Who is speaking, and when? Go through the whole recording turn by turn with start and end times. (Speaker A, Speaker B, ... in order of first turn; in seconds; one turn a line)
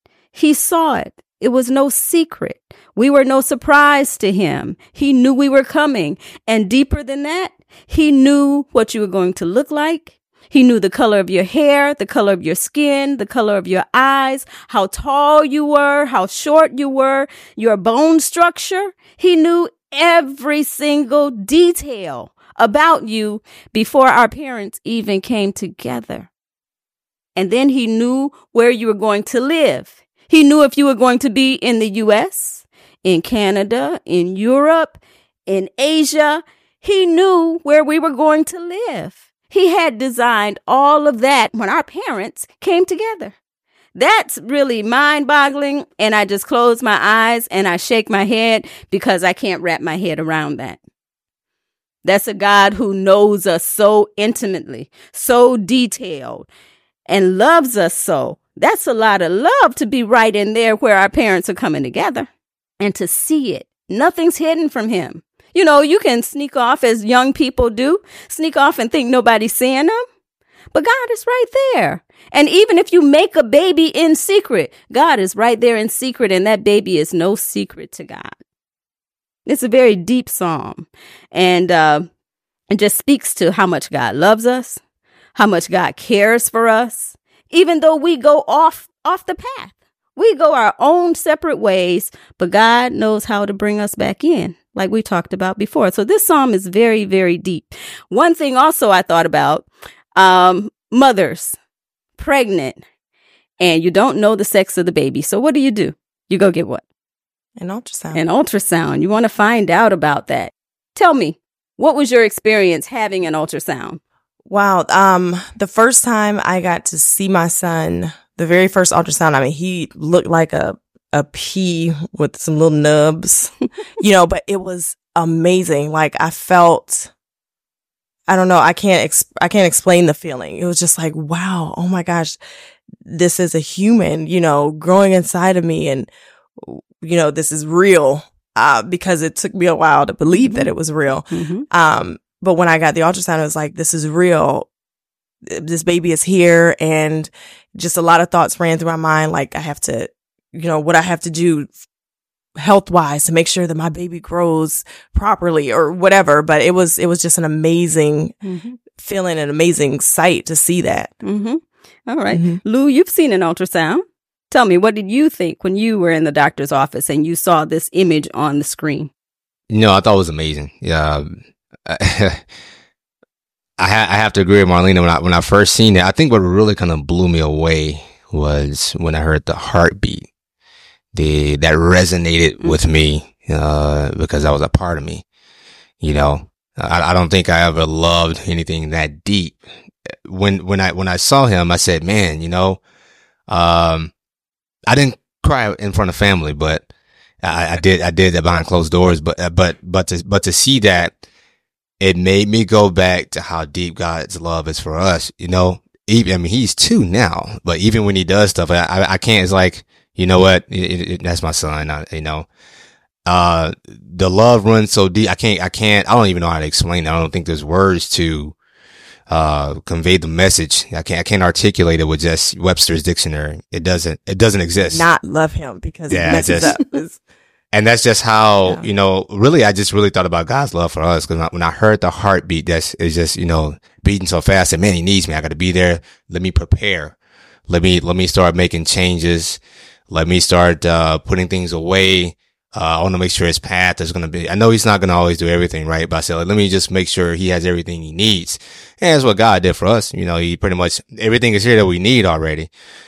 Speaker A: 0.3-26.3
Speaker A: 27.4-43.4
Speaker A: 44.0-50.8
Speaker A: 52.0-56.5
Speaker A: 57.1-62.3
Speaker A: 62.8-70.0
Speaker A: 70.7-78.4
Speaker A: 79.5-82.1
Speaker A: 82.7-84.8
Speaker A: 85.4-101.6
Speaker A: 102.2-102.8
Speaker A: 103.6-106.8
Speaker B: 107.6-108.2
Speaker A: 108.1-114.0
Speaker B: 114.5-127.1
Speaker B: 128.3-132.4
Speaker B: 133.0-136.1
Speaker B: 136.6-144.7
Speaker A: 140.3-140.7
Speaker A: 141.3-141.7
Speaker B: 145.4-151.8
Speaker B: 152.6-158.4
Speaker A: 158.4-158.8
Speaker B: 159.0-161.1
Speaker A: 161.2-169.1
Speaker B: 162.3-162.6
Speaker C: 169.7-172.4
Speaker C: 173.8-180.3
Speaker C: 181.1-185.2
Speaker C: 186.0-189.6
Speaker C: 190.3-192.8
Speaker C: 193.5-194.1
Speaker C: 194.9-196.9
Speaker C: 197.4-201.2
Speaker C: 202.0-212.5
Speaker C: 213.3-218.6
Speaker C: 219.3-225.1
Speaker B: 224.9-227.2
Speaker C: 226.1-226.7
Speaker A: 226.2-226.8
Speaker C: 227.7-237.2
Speaker C: 237.7-252.7